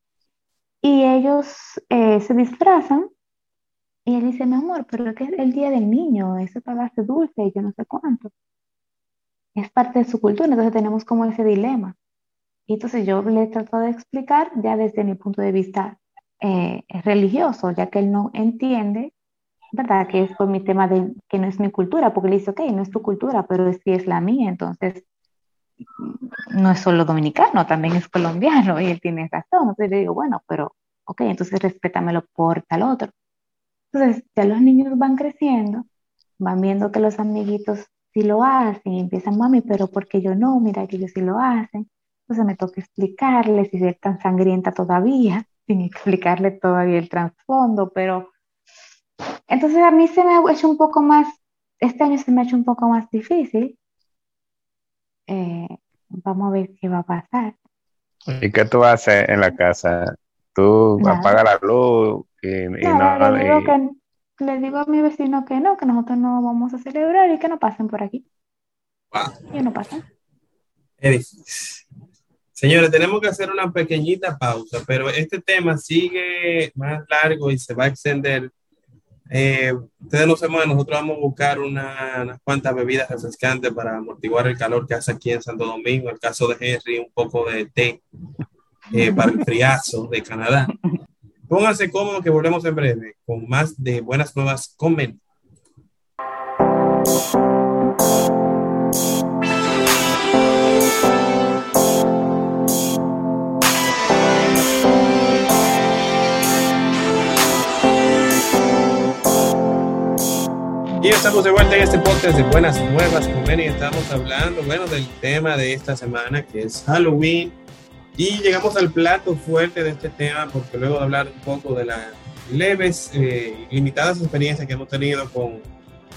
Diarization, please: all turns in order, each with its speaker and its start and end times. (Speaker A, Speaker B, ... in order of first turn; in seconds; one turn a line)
Speaker A: 0.8-3.1
Speaker A: 4.0-8.3
Speaker A: 9.5-11.9
Speaker A: 12.7-19.1
Speaker A: 19.7-25.0
Speaker A: 26.0-33.1
Speaker A: 33.9-35.8
Speaker A: 36.4-48.3
Speaker A: 49.5-53.8
Speaker A: 55.3-57.5
Speaker B: 58.3-63.7
Speaker A: 61.0-61.4
Speaker A: 62.8-68.2
Speaker A: 69.5-70.0
Speaker C: 71.0-71.8
Speaker C: 72.5-78.5
Speaker C: 79.3-88.0
Speaker A: 88.9-89.4
Speaker C: 88.9-90.7
Speaker C: 91.5-95.2
Speaker C: 111.0-117.6
Speaker C: 118.2-125.7